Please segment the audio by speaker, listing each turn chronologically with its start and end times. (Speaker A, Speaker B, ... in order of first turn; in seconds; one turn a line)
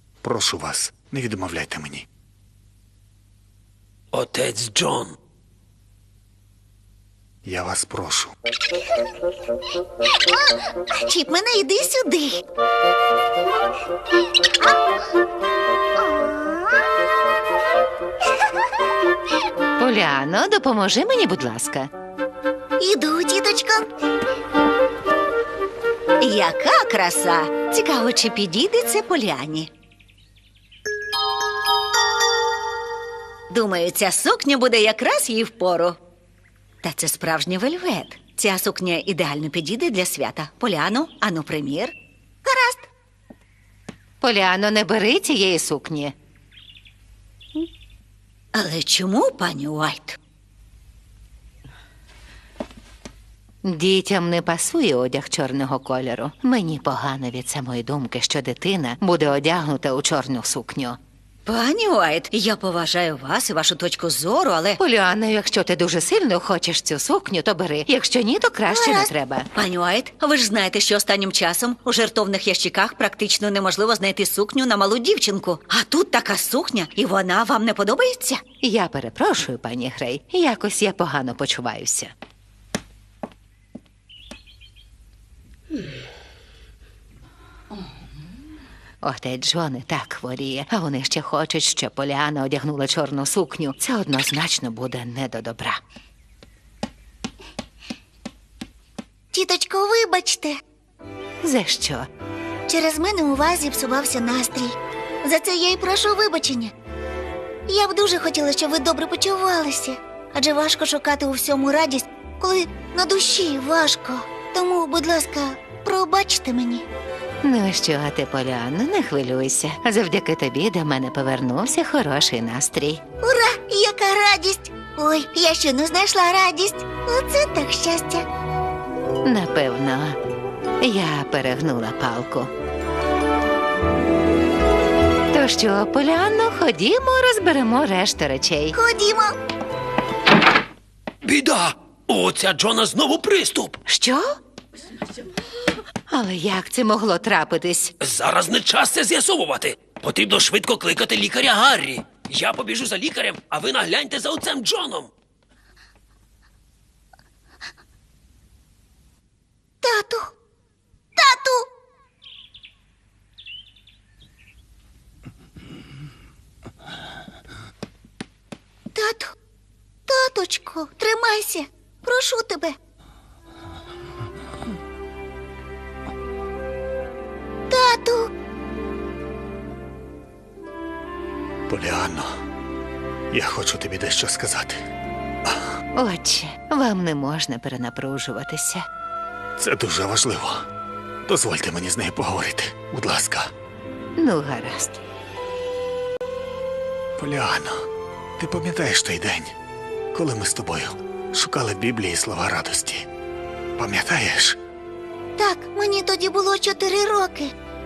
Speaker A: 0.2-2.0
Speaker B: 4.1-5.2
Speaker A: 7.4-8.3
Speaker C: 11.0-12.4
Speaker D: 19.8-21.9
Speaker C: 22.8-23.9
Speaker E: 26.2-29.7
Speaker E: 33.5-36.0
Speaker E: 36.8-41.9
Speaker E: 42.4-42.9
Speaker D: 44.2-46.1
Speaker E: 48.5-50.2
Speaker D: 53.6-61.0
Speaker E: 61.5-64.8
Speaker D: 64.8-69.5
Speaker C: 68.7-69.0
Speaker E: 69.5-78.4
Speaker D: 78.6-82.1
Speaker D: 89.0-95.8
Speaker C: 99.3-100.6
Speaker D: 101.4-102.1
Speaker C: 102.7-106.7
Speaker C: 107.7-116.8
Speaker D: 117.4-123.0
Speaker C: 123.2-128.2
Speaker D: 129.2-130.2
Speaker D: 130.8-132.5
Speaker D: 135.3-138.8
Speaker C: 138.7-139.3
Speaker B: 141.2-143.8
Speaker D: 143.8-144.3
Speaker D: 146.1-147.9
Speaker B: 148.0-155.1
Speaker C: 159.8-160.3
Speaker C: 161.2-161.7
Speaker C: 168.9-169.3
Speaker C: 170.1-172.8
Speaker C: 177.7-178.3
Speaker A: 181.7-182.4
Speaker A: 183.3-184.8
Speaker A: 185.4-185.7
Speaker D: 185.9-188.8
Speaker A: 189.6-190.7
Speaker A: 191.2-193.5
Speaker D: 194.2-195.0
Speaker A: 197.2-197.8
Speaker A: 198.4-199.5
Speaker A: 200.1-203.1
Speaker A: 203.8-204.6
Speaker C: 205.4-207.5